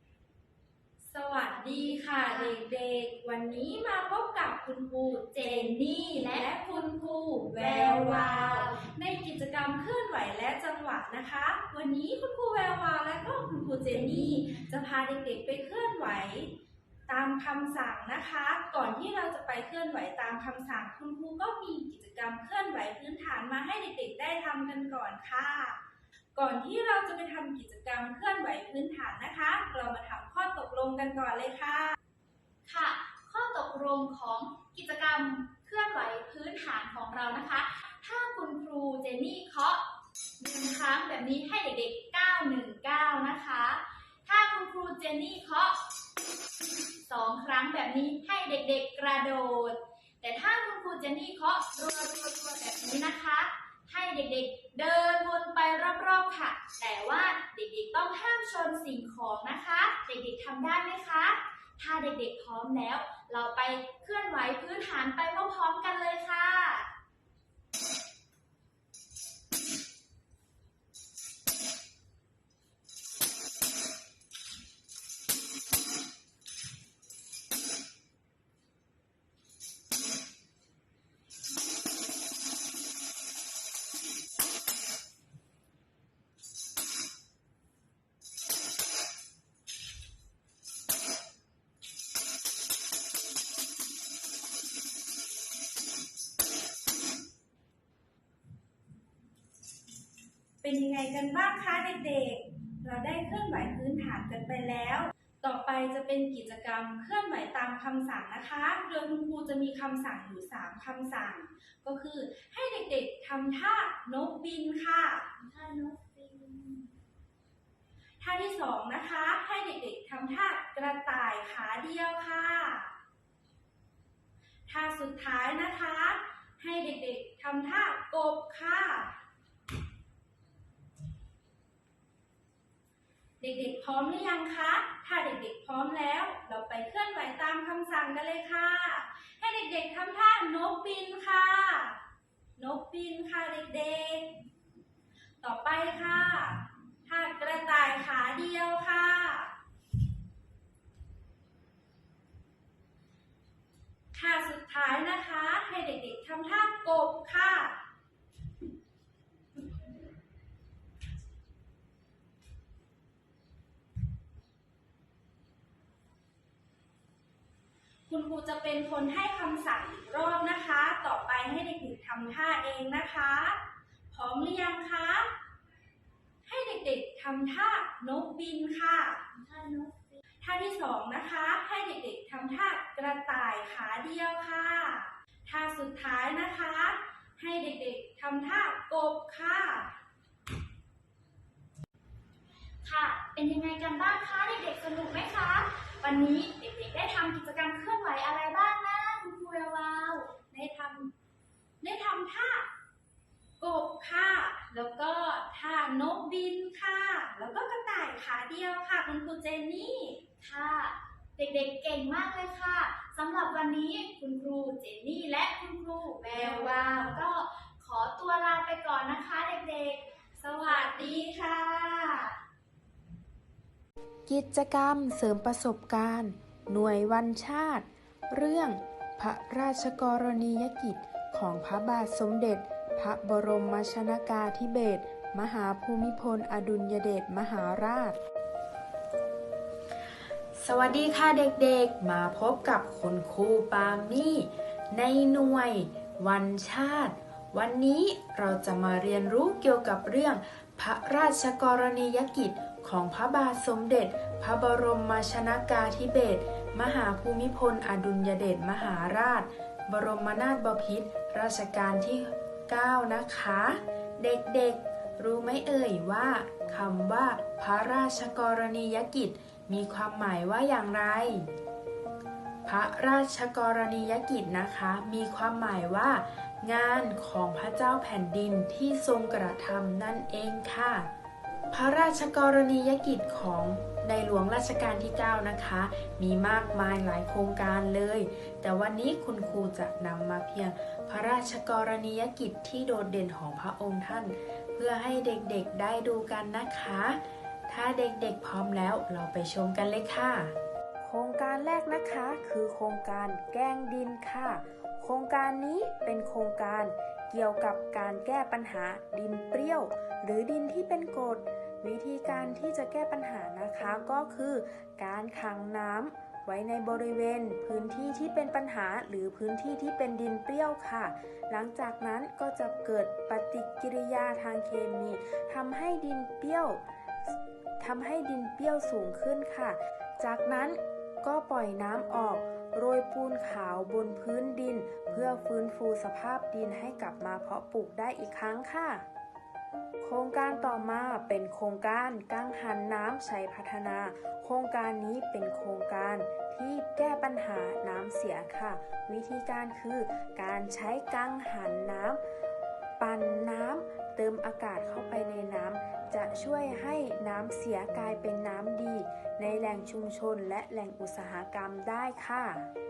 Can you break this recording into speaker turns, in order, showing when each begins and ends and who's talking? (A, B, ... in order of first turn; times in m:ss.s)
0:01.0-0:16.5 A
0:01.8-0:02.6 B
0:05.3-0:06.5 B
0:07.6-0:08.8 B
0:14.1-0:14.5 B
0:17.1-0:25.8 A
0:26.4-0:32.0 A
0:32.7-0:39.8 B
0:40.4-0:45.8 B
0:47.0-1:06.9 B
1:40.6-1:55.3 A
1:55.4-1:56.9 B
1:58.2-2:02.9 A
2:04.7-2:09.2 A
2:13.4-2:22.0 A
2:22.6-2:24.3 A
2:25.4-2:29.5 A
2:34.1-2:37.8 A
2:48.1-2:55.3 A
2:56.5-2:59.2 A
2:59.3-3:00.2 B
3:00.4-3:09.9 A
3:12.8-3:20.3 B
3:20.5-3:21.1 A
3:21.8-3:22.7 A
3:23.6-3:30.2 A
3:30.4-3:40.1 B
3:36.3-3:37.2 A
3:40.4-3:42.1 A
3:40.7-3:42.1 B
3:44.3-3:58.2 C
4:00.6-4:31.5 C
4:32.7-4:41.1 C
4:41.7-5:26.8 C
5:27.8-5:39.0 C
5:40.0-5:52.2 C
5:53.0-6:02.7 C